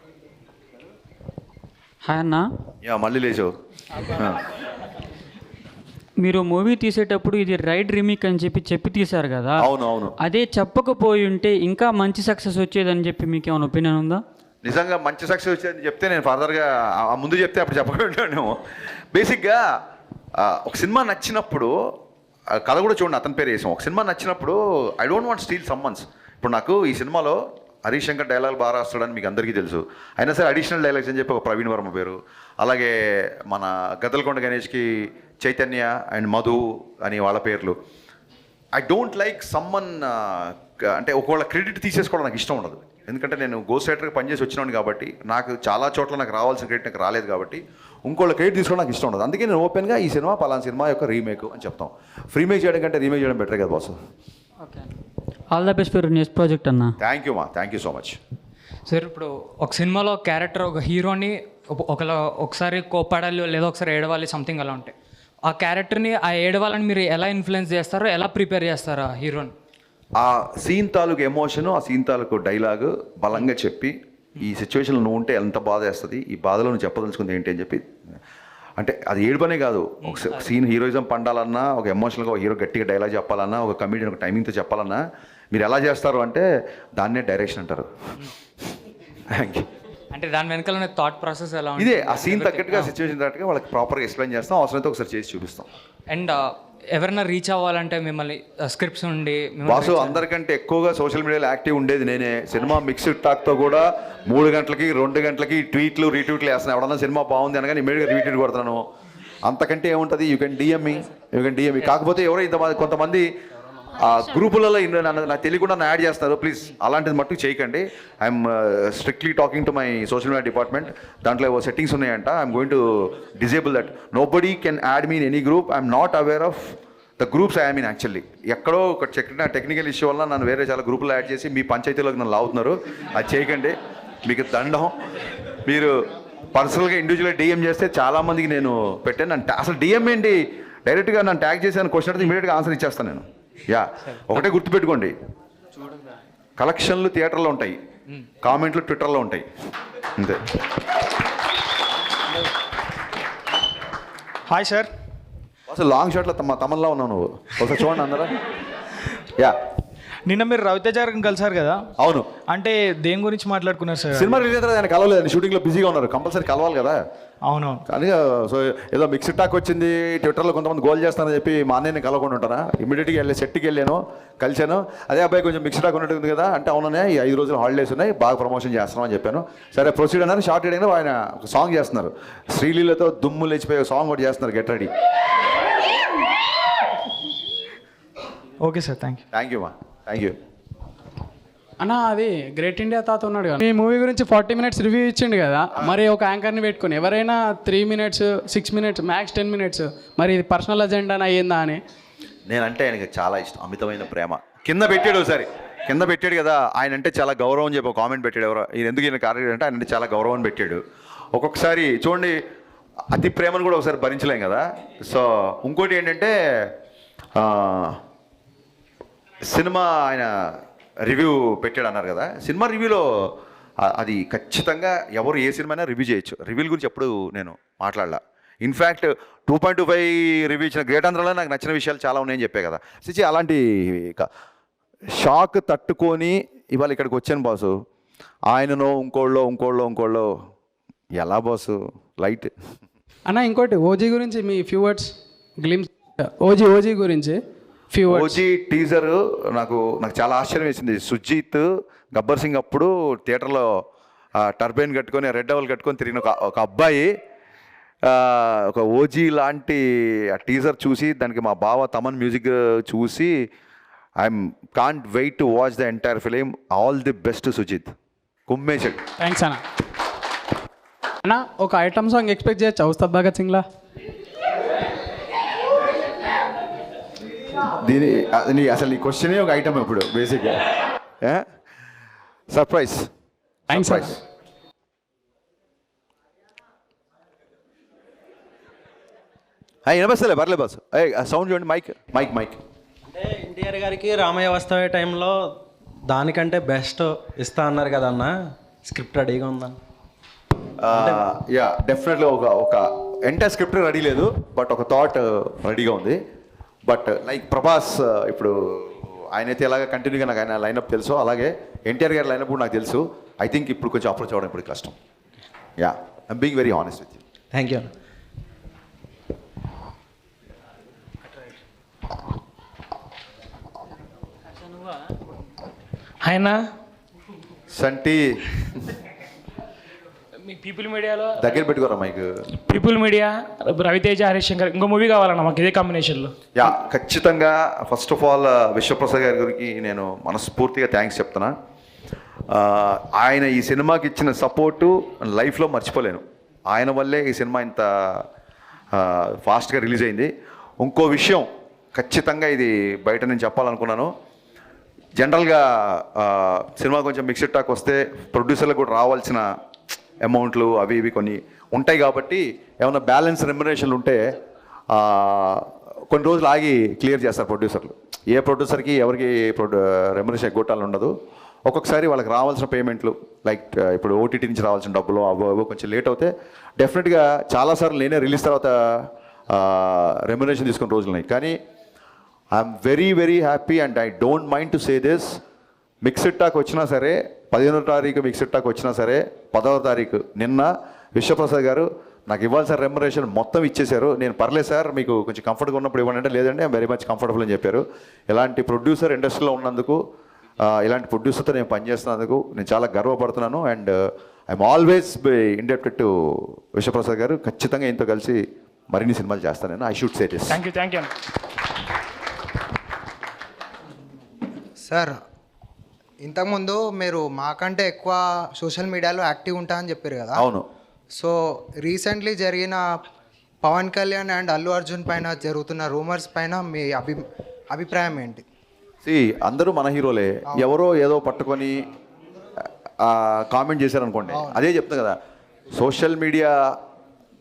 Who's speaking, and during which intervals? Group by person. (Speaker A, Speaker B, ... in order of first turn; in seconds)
Speaker A: 2.0-2.5, 6.2-9.7, 10.2-14.2, 55.5-56.9
Speaker B: 2.8-3.5, 4.1-4.4, 9.6-10.1, 14.6-18.6, 19.1-19.6, 20.4-21.7, 22.5-37.8, 38.8-54.0, 57.0-58.2, 70.2-77.9, 78.8-86.5, 87.0-87.9, 89.3-89.7, 91.8-95.7, 99.6-108.8, 109.4-113.3, 114.0-134.9, 135.6-135.9, 136.5-145.1, 146.6-147.8, 148.4-149.4, 150.2-150.4, 155.7-158.3, 162.0-162.3, 164.1-167.0, 167.9-184.9, 189.3-190.3, 202.5-210.8, 211.3-212.4, 213.1-216.7, 217.4-218.0, 219.4-234.3, 235.1-237.7, 238.5-240.3, 241.1-242.5, 248.1-253.7, 254.4-257.1, 258.1-263.3, 264.2-267.9, 268.5-269.0, 277.6-281.4, 282.5-283.1, 283.7-284.2, 289.9-292.6, 300.8-306.2, 306.9-314.9, 315.8-317.2, 327.7-328.4, 331.4-332.3, 336.6-341.5, 342.5-348.2, 348.9-354.1, 355.2-359.4, 360.2-364.3, 364.9-371.1, 371.7-381.5, 382.5-385.4, 386.0-400.0, 400.6-410.6, 420.3-420.6, 429.0-431.8, 433.0-435.1, 435.7-436.7
Speaker C: 58.9-64.9, 65.4-69.5, 80.0-80.5, 90.1-92.9, 96.1-100.2
Speaker D: 154.5-154.9, 160.3-161.8, 162.5-164.4, 167.4-167.8, 188.6-189.2
Speaker E: 191.8-201.8, 243.3-247.4, 247.9-248.4, 269.2-269.6, 271.2-273.6, 283.7-284.1
Speaker F: 293.1-295.4, 296.1-298.3, 298.9-299.8, 317.5-317.9
Speaker G: 326.2-326.6, 330.4-331.4, 332.6-336.3, 410.5-411.1
Speaker H: 414.8-415.2, 416.2-420.4, 421.1-422.8, 423.6-428.4, 434.3-434.6